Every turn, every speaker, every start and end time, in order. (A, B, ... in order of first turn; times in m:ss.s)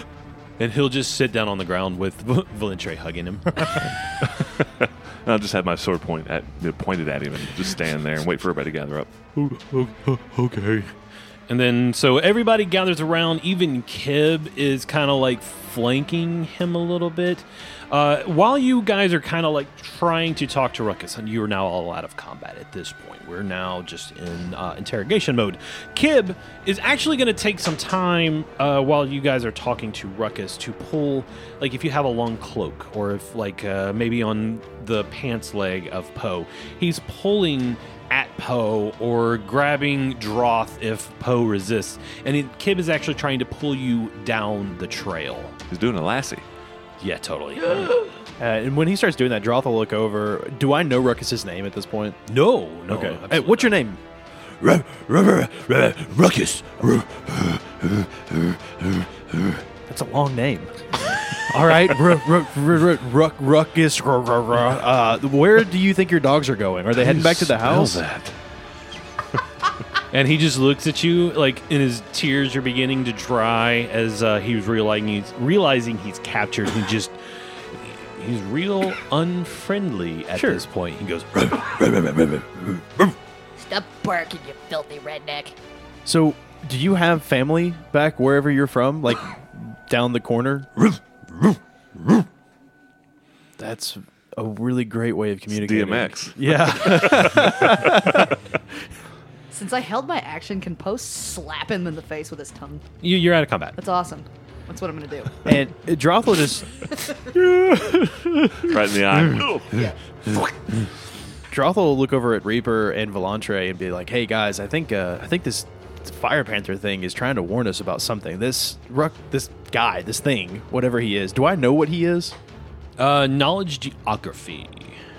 0:00.6-0:03.9 A
0:04.2-0:09.1 B
0:09.3-0:10.9 A
0:11.5-0:45.6 A
0:45.7-0:46.4 B
0:47.0-0:48.1 A
0:48.4-0:52.2 C
0:52.3-0:53.8 A
0:52.9-0:54.0 C
0:54.6-1:08.0 C
1:07.0-1:08.4 B
1:10.1-1:17.2 A
1:17.7-1:21.8 A
1:20.3-1:20.6 C
1:21.5-1:22.8 C
1:23.6-1:25.5 D
1:26.0-1:32.2 C
1:33.6-1:38.4 C
1:35.5-1:37.9 B
1:39.5-1:42.8 E
1:43.0-1:43.8 A
1:43.8-1:45.5 E
1:45.4-1:46.8 C
1:47.3-1:49.5 A
1:48.6-1:49.9 B
1:51.5-2:02.4 C
2:03.0-2:05.0 A